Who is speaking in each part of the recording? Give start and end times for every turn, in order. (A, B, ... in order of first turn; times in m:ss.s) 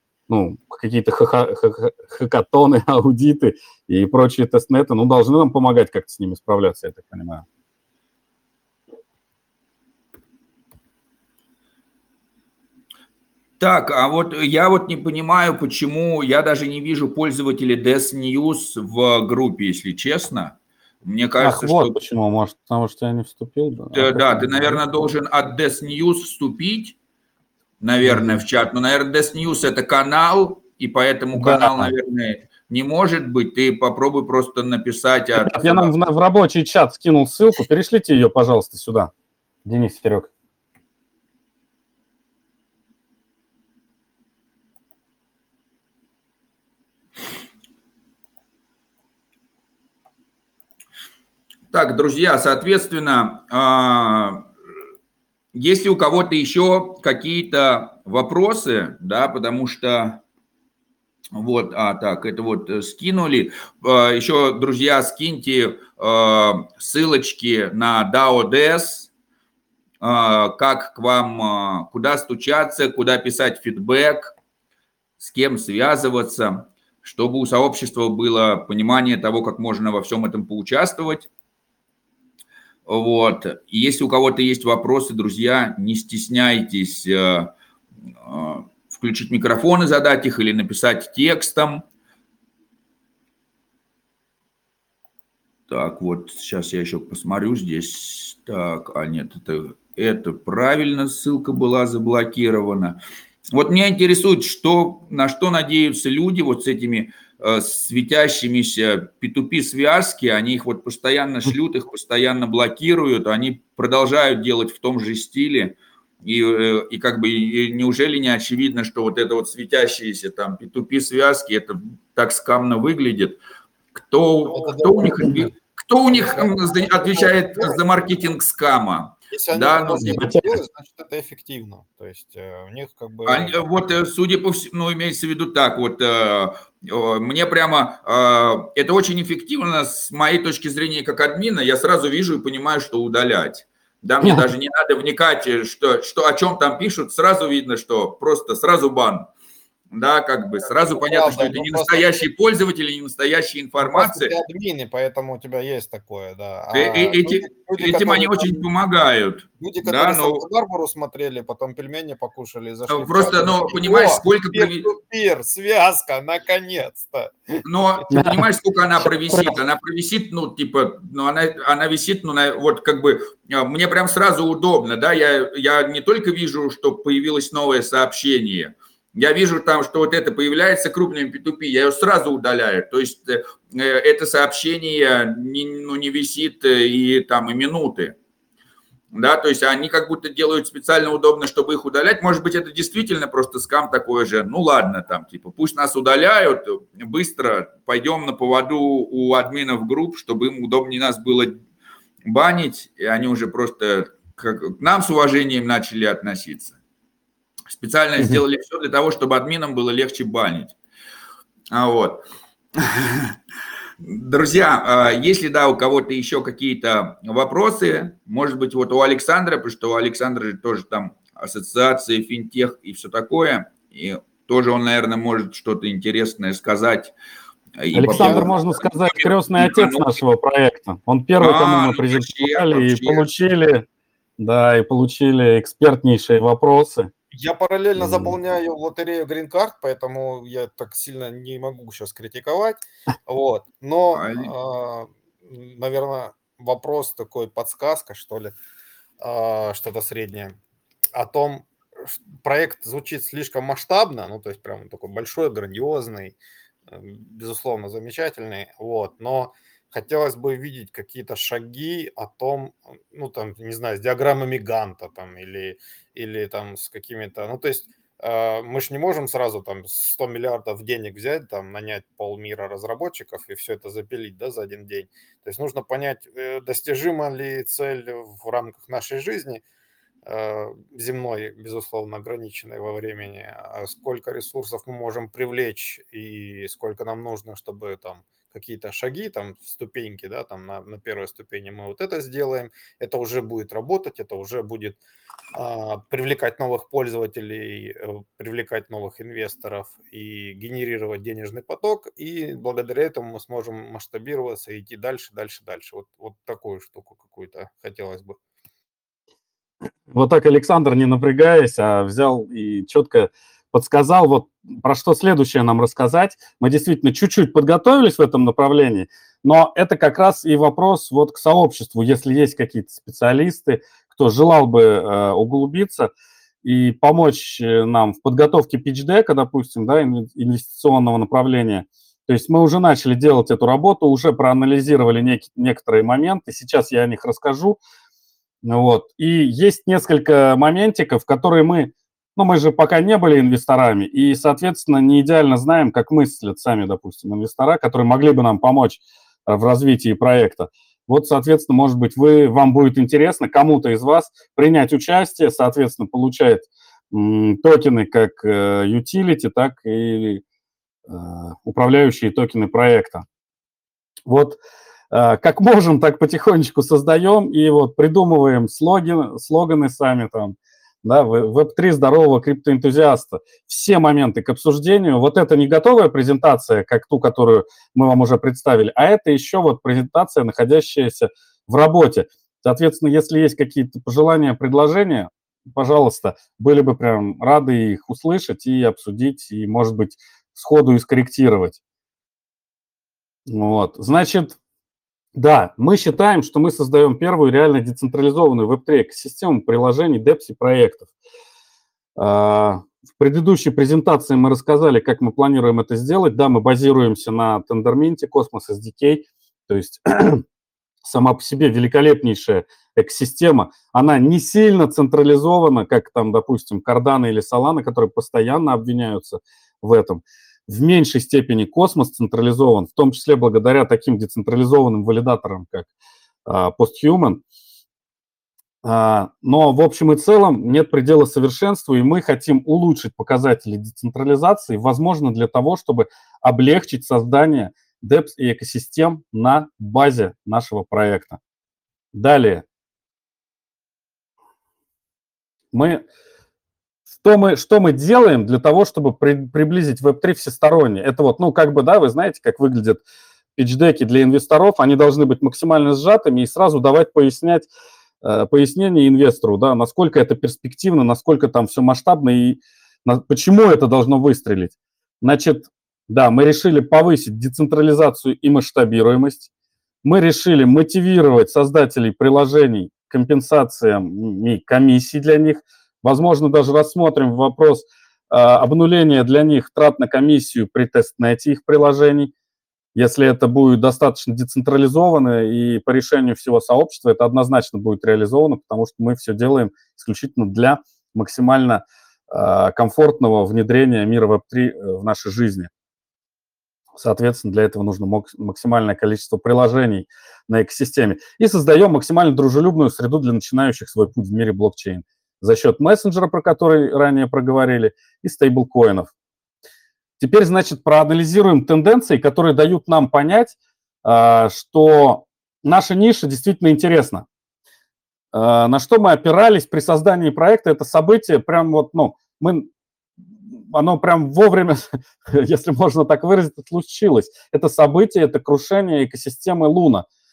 0:00.3-0:07.4 A
0:13.6-0:22.0 B
0:21.4-0:24.8 A
0:23.9-0:27.0 B
0:27.8-0:35.9 B
0:28.0-0:28.4 A
0:31.3-0:31.9 A
0:35.4-0:39.1 A
0:39.6-0:40.3 A
0:51.7-0:54.4 B
0:55.5-1:00.2 B
1:01.3-1:09.1 B
1:10.0-1:14.3 B
1:15.2-1:21.3 B
1:22.9-1:27.5 B
1:28.2-1:31.8 B
1:35.7-1:43.0 B
1:43.5-2:03.4 B
2:04.0-2:10.2 B
2:04.4-2:05.4 C
2:06.1-2:07.8 C
2:09.3-2:13.6 C
2:10.0-2:10.5 A
2:13.2-2:29.3 B
2:24.2-2:24.5 A
2:29.9-2:34.3 B
2:30.6-2:32.1 C
2:33.8-2:38.6 C
2:36.7-2:40.4 B
2:39.6-2:47.6 C
2:42.9-2:44.9 B
2:47.6-3:08.1 B
2:48.1-2:48.4 A
2:49.0-2:49.5 A
3:09.1-3:21.6 B
3:22.2-3:26.7 B
3:27.7-3:30.7 B
3:31.7-3:32.2 B
3:32.7-3:33.3 B
3:34.0-3:47.1 B
3:47.8-3:50.0 B
3:47.9-3:53.8 A
3:48.0-3:48.6 C
3:51.4-3:53.2 B
3:54.4-3:57.1 A
3:57.3-4:08.5 C
3:58.0-3:58.3 A
4:04.1-4:04.5 B
4:09.2-4:10.6 C
4:11.1-4:16.4 C
4:16.9-4:39.6 C
4:40.2-4:55.0 C
4:55.5-5:08.4 C
5:10.1-5:26.1 A
5:26.6-5:37.8 A
5:38.6-6:00.4 A
6:01.1-6:03.2 A
6:04.3-6:04.6 A
6:05.1-6:31.8 A
6:33.5-6:34.6 A
6:35.3-6:41.1 A
6:42.2-6:50.4 A
6:51.0-7:05.9 A
7:06.4-7:07.4 A
7:08.8-7:21.4 A
7:22.1-7:22.6 A
7:25.7-7:26.0 A
7:27.2-7:33.0 A
7:33.6-7:37.7 A
7:38.2-7:49.4 A
7:50.0-8:02.3 A
8:02.9-8:15.7 A
8:17.0-8:29.1 A
8:30.2-8:37.2 A
8:38.3-8:42.7 A
8:43.5-8:50.0 A